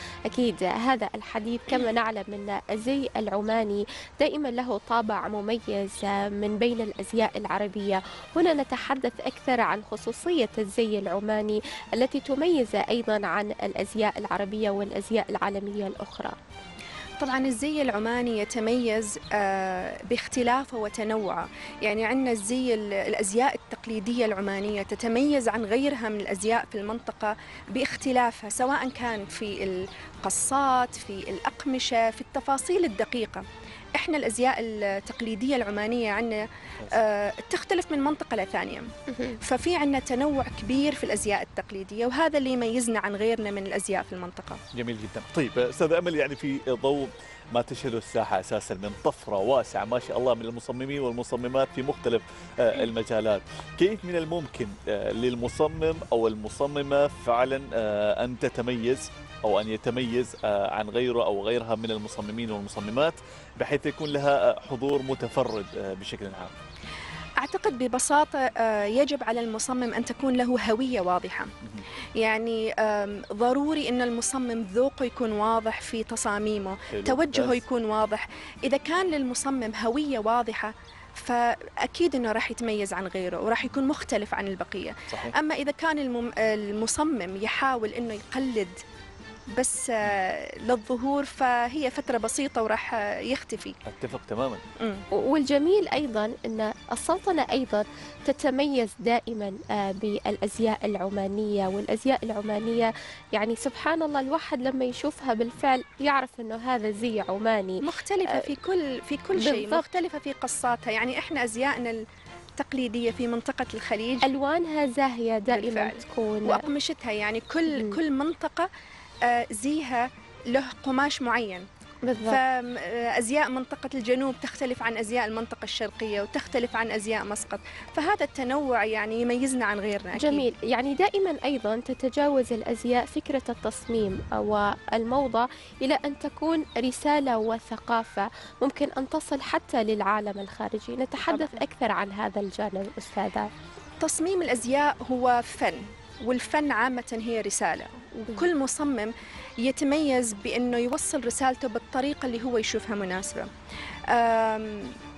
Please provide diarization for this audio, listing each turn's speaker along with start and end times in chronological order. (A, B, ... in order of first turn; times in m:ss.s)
0:00.3-0:16.4 A
0:17.2-0:33.4 B
0:34.0-0:38.9 B
0:39.1-0:39.4 A
0:39.4-0:44.6 B
0:44.7-1:06.5 C
1:07.4-1:11.5 B
1:12.2-1:28.7 B
1:16.9-1:17.6 C
1:29.5-1:33.8 B
1:33.8-1:34.6 C
1:35.2-1:48.5 A
1:47.8-1:52.0 B
1:49.3-1:49.9 A
1:52.6-1:54.3 B
1:54.2-1:56.6 A
1:55.5-1:58.7 B
1:57.7-1:58.0 A
1:59.2-2:01.7 B
2:02.0-2:02.4 A
2:02.2-2:10.5 B
2:10.1-2:23.5 A
2:21.3-2:21.6 B
2:24.0-2:33.5 B
2:34.1-2:35.0 B